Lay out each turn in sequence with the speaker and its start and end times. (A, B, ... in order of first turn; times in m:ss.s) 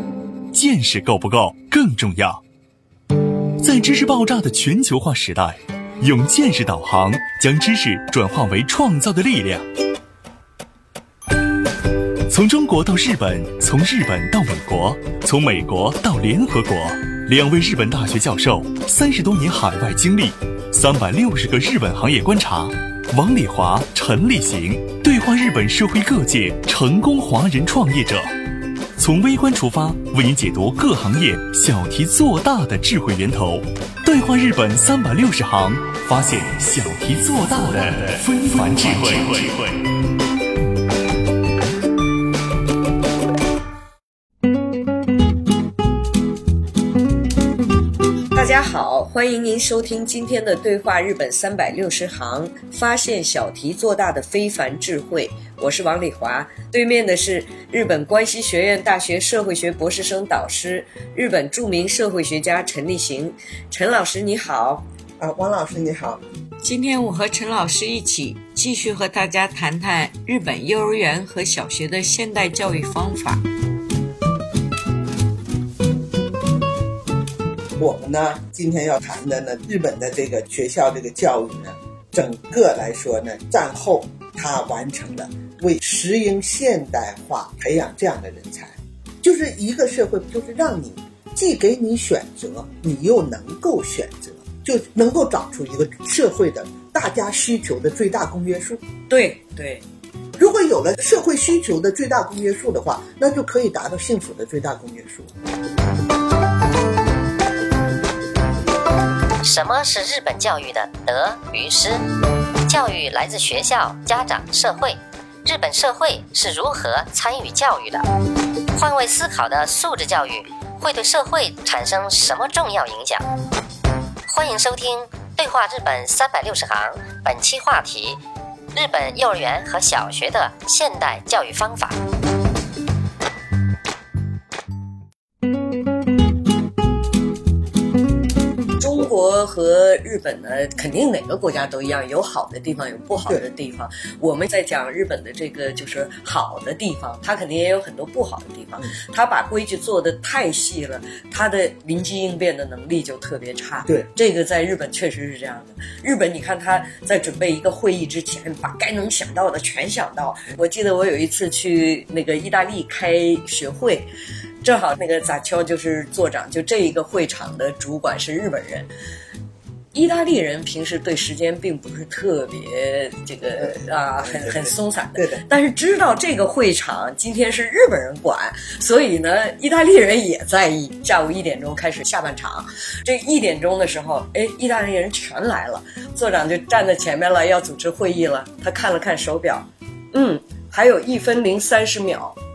0:00.5-0:02.4 A
0:03.6-0:09.7 A
0:12.3-0:28.4 A
0:29.0-0:39.8 A
0:48.3-1:04.8 B
1:05.2-1:06.2 C
1:06.6-1:13.4 D
1:17.8-1:38.8 C
1:39.1-1:39.8 B
1:40.4-1:45.3 C
1:49.4-1:52.0 E
1:52.6-1:58.0 E
1:58.8-2:03.3 E
2:04.3-2:08.2 E
2:08.7-2:12.0 E
2:18.8-2:44.1 B
2:44.6-2:48.9 B
2:49.9-3:12.4 B
2:53.6-2:55.4 C